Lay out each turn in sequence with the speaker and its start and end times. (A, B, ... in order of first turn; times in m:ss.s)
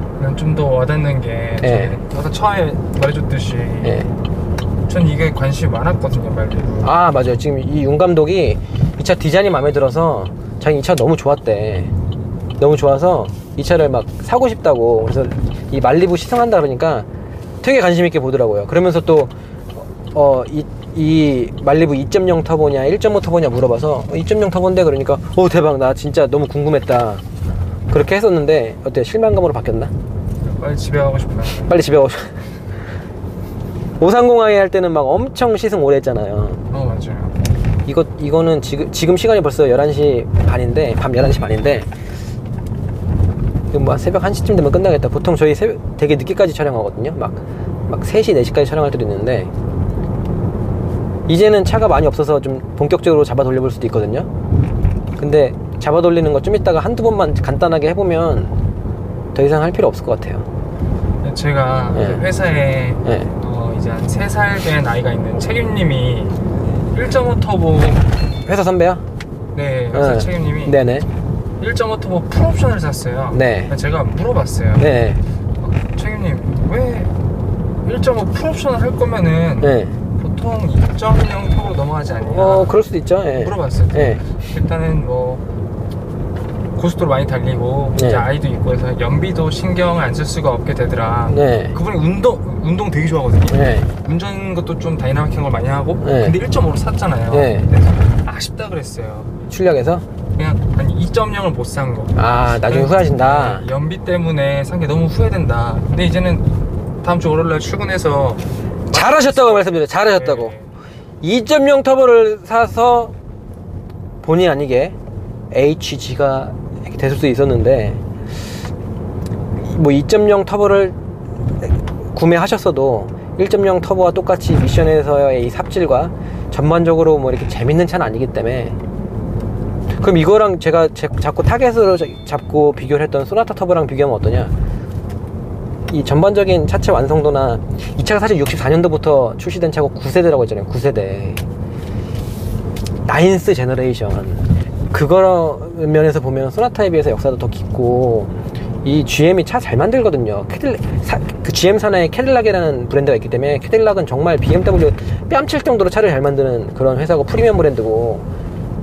0:00.2-0:04.0 A
0:01.6-0:02.0 B
0:03.8-0:04.1 B
0:04.8-0:06.9 A
0:06.8-0:11.9 B
0:12.6-0:17.1 B
0:17.6-0:27.2 B
0:27.9-0:29.9 B
0:30.4-0:31.7 A
0:31.7-0:32.3 B
0:34.0-0:36.6 B
0:36.7-0:37.4 A
0:37.8-0:41.9 B
0:43.7-0:49.5 B
0:51.3-0:54.3 B
0:55.2-0:58.6 B
0:59.3-1:00.5 B
1:01.2-1:06.4 A
1:01.9-1:02.3 B
1:03.0-1:03.3 B
1:06.9-1:08.1 A
1:08.4-1:09.0 B
1:09.5-1:10.8 A
1:09.9-1:11.1 B
1:11.6-1:14.9 A
1:13.3-1:13.7 B
1:14.8-1:15.2 B
1:15.6-1:17.1 A
1:17.8-1:22.7 A
1:19.6-1:20.0 B
1:22.3-1:24.2 B
1:23.3-1:25.4 A
1:26.7-1:39.3 A
1:28.0-1:28.3 B
1:31.3-1:31.8 B
1:33.5-1:33.9 B
1:36.0-1:36.4 B
1:37.3-1:37.7 B
1:39.5-1:40.0 B
1:40.3-1:50.7 A
1:42.1-1:43.6 B
1:48.9-1:50.5 B
1:51.2-1:53.1 B
1:54.2-1:54.9 B
1:55.5-1:58.0 B
1:59.6-2:01.0 B
2:01.6-2:08.8 B
2:10.0-2:14.5 B
2:15.9-2:21.4 B
2:23.0-2:38.2 B